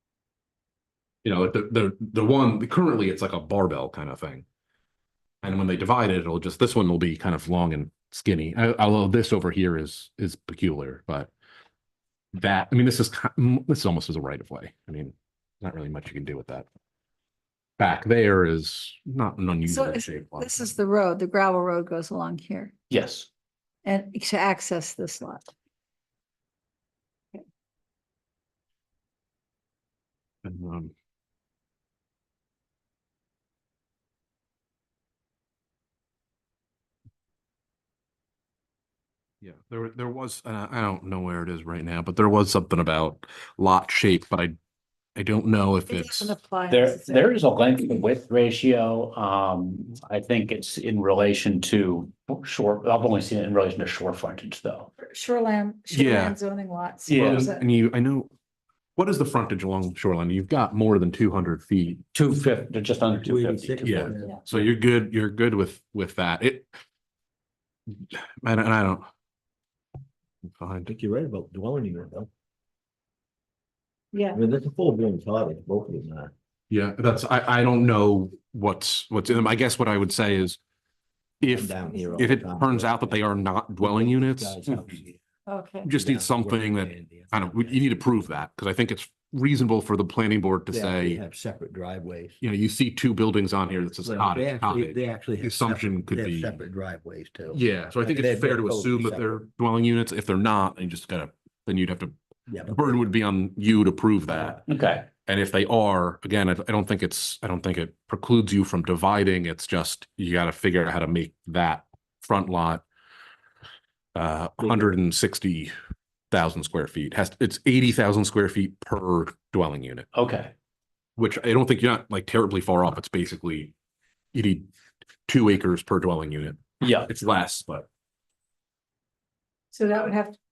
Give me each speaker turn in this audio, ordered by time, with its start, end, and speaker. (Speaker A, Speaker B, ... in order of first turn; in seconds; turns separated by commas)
Speaker A: 1.2-4.5, Speaker A: 5.4-11.3, Speaker A: 12.3-16.7, Speaker A: 17.8-20.7, Speaker B: 19.7-22.7, Speaker C: 22.9-23.3, Speaker B: 23.9-25.5, Speaker A: 30.4-30.9, Speaker A: 39.4-44.5, Speaker A: 45.1-46.3, Speaker B: 45.9-47.4, Speaker C: 46.7-54.9, Speaker B: 55.0-57.6, Speaker A: 55.9-56.4, Speaker C: 57.1-57.5, Speaker A: 57.1-58.3, Speaker A: 59.0-62.0, Speaker C: 62.1-64.3, Speaker D: 63.2-64.7, Speaker A: 63.9-66.7, Speaker A: 68.1-69.1, Speaker A: 70.6-70.9, Speaker D: 70.9-72.3, Speaker B: 74.1-74.4, Speaker D: 74.3-76.3, Speaker A: 76.7-80.6, Speaker A: 81.4-84.6, Speaker D: 81.4-85.2, Speaker B: 81.9-82.3, Speaker C: 84.7-84.9, Speaker B: 85.5-85.9, Speaker A: 85.8-91.2, Speaker D: 86.0-88.1, Speaker D: 90.7-92.4, Speaker A: 92.4-96.6, Speaker D: 94.0-99.4, Speaker A: 97.5-102.1, Speaker D: 102.5-102.8, Speaker A: 102.7-104.7, Speaker C: 104.7-105.1, Speaker A: 105.2-112.8, Speaker A: 114.2-115.7, Speaker A: 116.3-120.1, Speaker C: 120.1-120.5, Speaker A: 121.2-123.7, Speaker A: 124.3-124.7, Speaker A: 125.3-127.9, Speaker C: 126.8-127.1, Speaker B: 129.7-130.3